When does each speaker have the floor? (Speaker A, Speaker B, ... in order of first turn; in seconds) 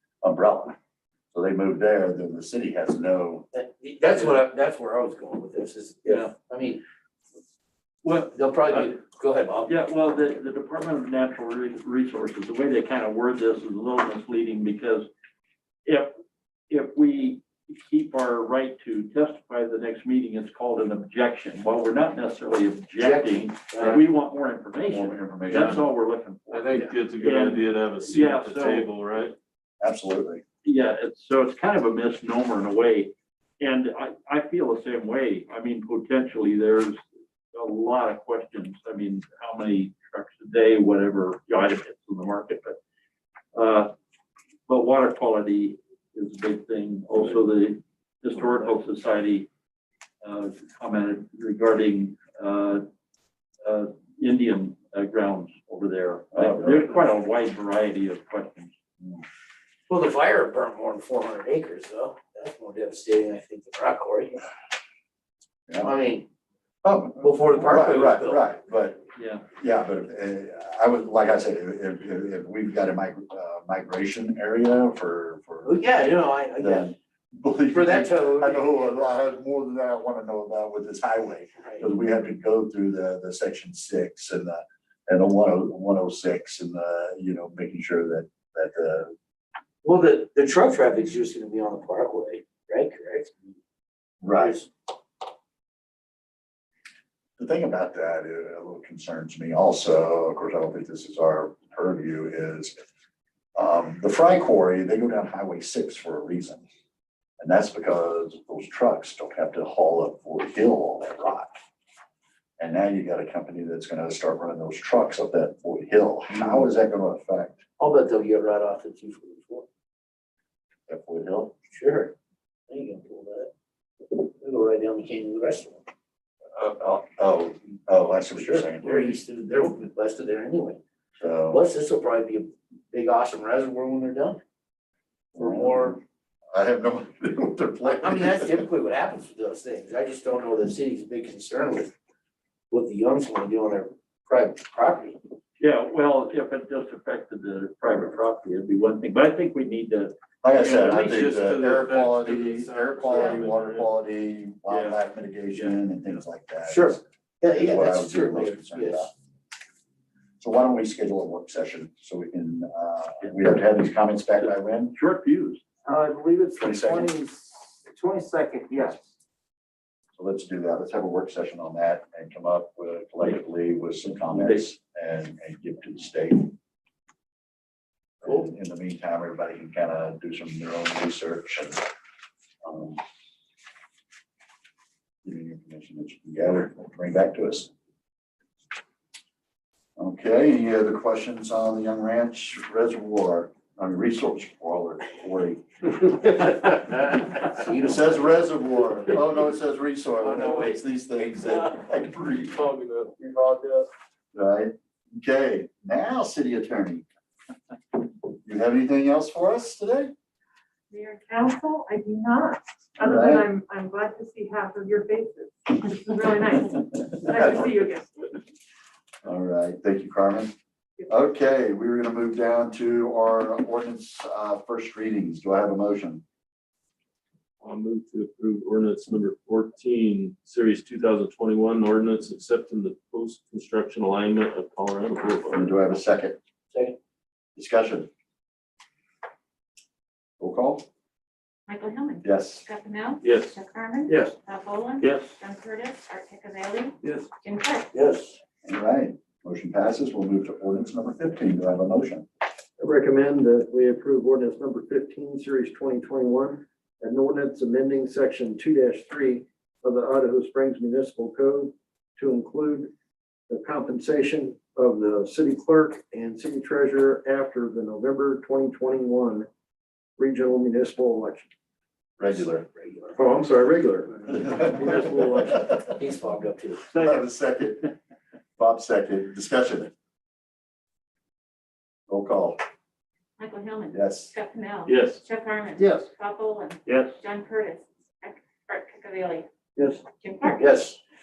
Speaker A: 0.2-0.8, 1.3-3.4, 24.9-25.8, 29.8-30.4, 56.3-56.9, 66.8-89.1, 94.2-94.6, 97.4-102.8, 103.5-106.6, 107.4-111.5, 112.6-117.6, 120.9-121.5, 126.5-129.2, 131.2-131.6, 135.4-135.9, 136.5-138.7, 150.4-159.1, 160.4-164.9, 166.6-167.1, 170.2-176.5, 178.2-181.8, 182.6-183.0, 185.2-187.7, 190.0-195.9, 197.8-202.6, 204.3-207.0, 208.4-210.1, 213.0-213.5, 219.2-220.5, 221.1-226.2, 235.5-236.4, 237.6-238.1, 240.4-240.8, 242.2-242.7, 248.6-252.2, 272.2-272.6, 274.3-275.9, 276.9-277.9, 278.6-279.9, 282.1-282.6, 283.9-284.3
Speaker B: 3.5-6.8, 8.0-9.7, 23.0-24.0, 59.9-64.4, 65.8-66.2, 67.2-68.4, 75.6-76.9, 77.7-79.1, 81.6-81.9, 89.8-93.3, 94.3-94.7, 117.8-119.7, 121.7-122.1, 122.7-123.5, 124.0-125.8, 128.3-130.8, 131.5-134.4, 135.3-136.0, 137.8-141.9, 142.7-145.2, 156.7-159.1, 167.1-169.0, 196.5-198.4, 247.9-248.4, 272.3-273.3, 275.9-276.9, 290.5-291.0
Speaker C: 9.7-15.1, 15.8-16.1, 16.7-28.9, 30.6-37.0, 37.5-42.8, 43.5-43.9, 44.7-49.5, 50.2-52.8, 53.6-58.7, 69.1-69.4, 145.6-151.0, 164.9-165.6, 174.3-174.6, 274.6-275.4, 286.9-287.1
Speaker D: 25.5-25.8, 26.5-29.3, 150.6-153.9, 154.7-154.9, 200.2-200.7, 202.4-203.1, 227.6-235.7, 243.2-243.6, 245.0-245.3, 284.9-285.2
Speaker E: 165.8-167.1, 252.8-262.9, 263.5-269.5, 270.2-271.5, 273.2-274.5, 275.1-275.4, 285.8-286.1, 289.8-290.0
Speaker F: 210.9-218.0
Speaker G: 241.7-247.9, 283.4-289.5, 290.2-290.6